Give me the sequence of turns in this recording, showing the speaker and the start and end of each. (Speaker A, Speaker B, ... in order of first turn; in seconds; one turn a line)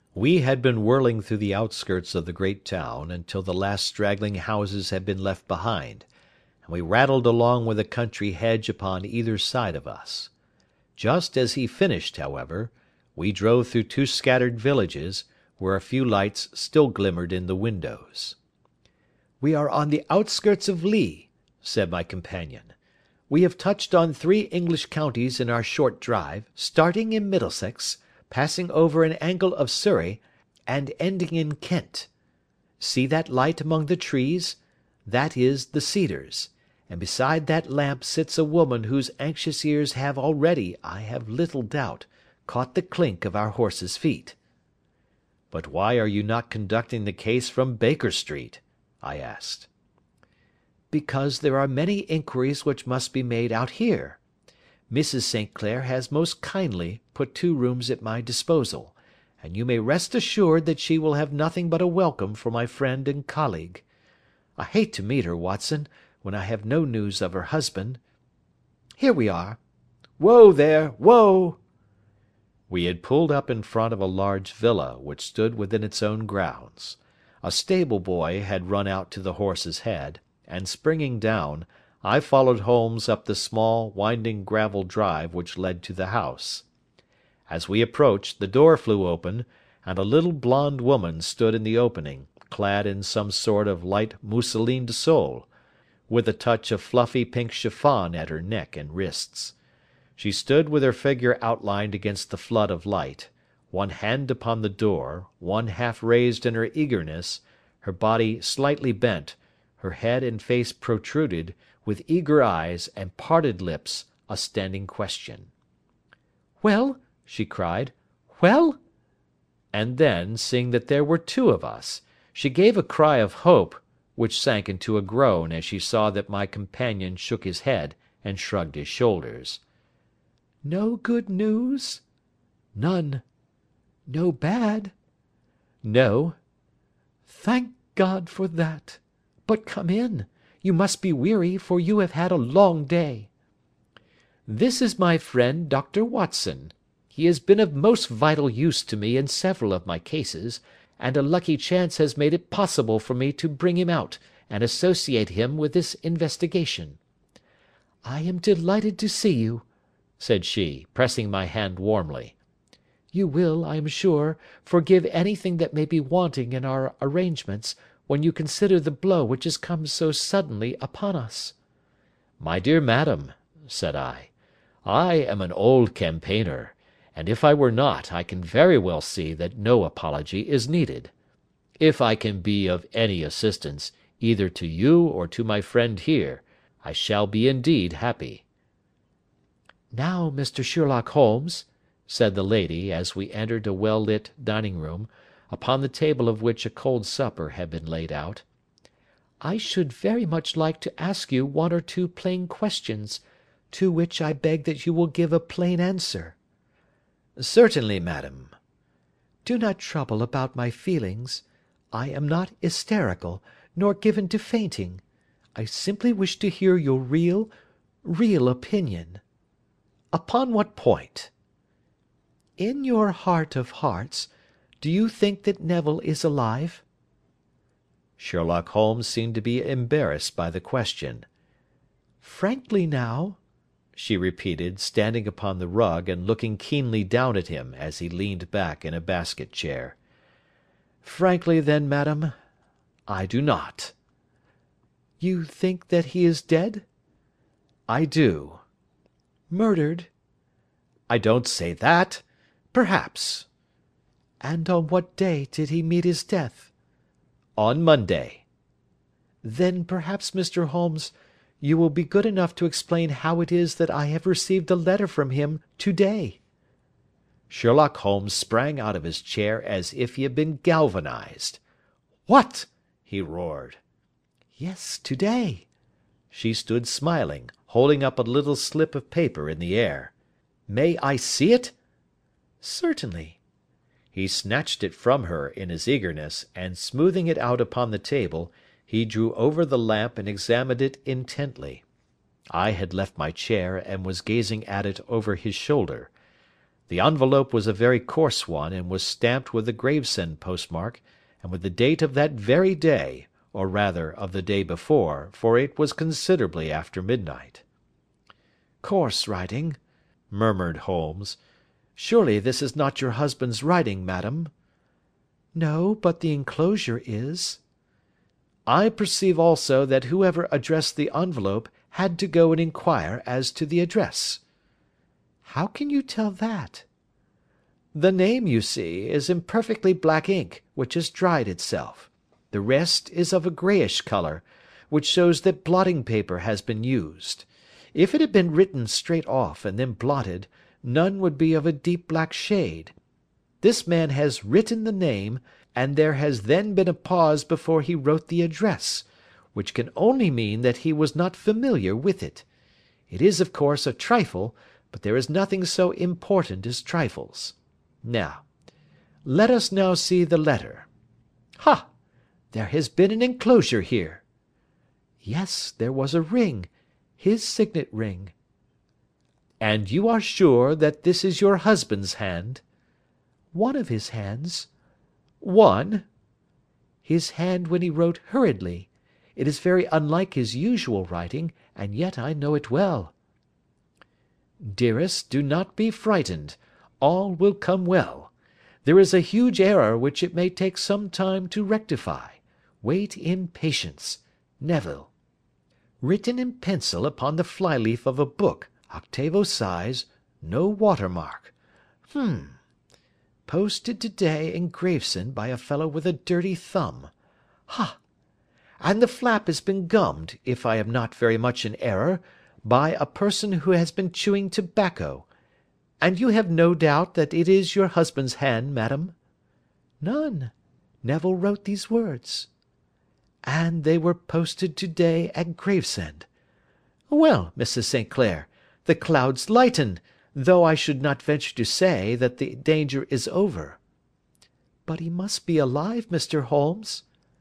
Speaker A: 0.1-6.1
Speaker A: 6.6-10.3
Speaker A: 11.0-18.4
Speaker A: 19.4-22.7
Speaker A: 23.3-32.1
Speaker A: 32.8-44.4
Speaker A: 45.5-49.7
Speaker A: 50.9-54.2
Speaker A: 54.9-63.9
Speaker A: 64.6-68.0
Speaker A: 69.0-69.6
Speaker A: 70.2-71.6
Speaker A: 72.7-86.7
Speaker A: 87.5-95.5
Speaker A: 96.1-99.5
Speaker A: 100.2-115.5
Speaker A: 116.6-118.8
Speaker A: 119.7-129.6
Speaker A: 130.6-132.0
Speaker A: 132.8-133.2
Speaker A: 134.1-134.9
Speaker A: 135.8-136.4
Speaker A: 137.3-143.3
Speaker A: 144.5-157.0
Speaker A: 158.1-159.7
Speaker A: 160.2-162.4
Speaker A: 163.1-171.6
Speaker A: 172.4-174.3
Speaker A: 174.8-181.1
Speaker A: 181.8-188.4
Speaker A: 189.9-198.4
Speaker A: 199.4-206.4
Speaker A: 207.4-208.5
Speaker A: 209.4-215.0
Speaker A: 215.6-217.5
Speaker A: 218.0-219.2
Speaker A: 220.1-221.3
Speaker A: 222.6-224.3
Speaker A: 224.8-226.8
Speaker A: 228.2-231.3
Speaker A: 232.2-233.4
Speaker A: 234.0-240.0
Speaker A: 241.0-242.3
Speaker A: 243.1-243.9
Speaker A: 245.2-246.8
Speaker A: 247.9-248.6
Speaker A: 249.5-250.1
Speaker A: 251.1-253.5
Speaker A: 254.4-256.7
Speaker A: 257.6-258.4
Speaker A: 259.4-266.4
Speaker A: 267.5-271.6
Speaker A: 272.3-273.8
Speaker A: 274.6-275.7
Speaker A: 276.3-280.1
Speaker A: 280.7-281.8
Speaker A: 282.6-283.4
Speaker A: 284.1-291.8
Speaker A: 292.5-296.1
Speaker A: 296.9-307.6
Speaker A: 308.8-309.8
Speaker A: 310.3-311.4
Speaker A: 312.0-314.5
Speaker A: 315.6-317.6
Speaker A: 318.7-324.4
Speaker A: 325.4-326.9
Speaker A: 327.9-342.9
Speaker A: 343.6-352.5
Speaker A: 353.1-358.5
Speaker A: 359.2-360.9
Speaker A: 361.6-361.9
Speaker A: 362.5-364.2
Speaker A: 365.2-368.3
Speaker A: 369.6-372.6
Speaker A: 373.5-374.7
Speaker A: 375.4-376.1
Speaker A: 377.0-383.1
Speaker A: 384.6-388.3
Speaker A: 388.8-395.1
Speaker A: 396.0-401.5
Speaker A: 402.1-402.6
Speaker A: 403.5-407.1
Speaker A: 407.7-408.0
Speaker A: 408.8-415.3
Speaker A: 416.0-419.1
Speaker A: 420.0-420.5
Speaker A: 421.0-422.5
Speaker A: 423.5-426.3
Speaker A: 427.1-433.8
Speaker A: 434.9-437.1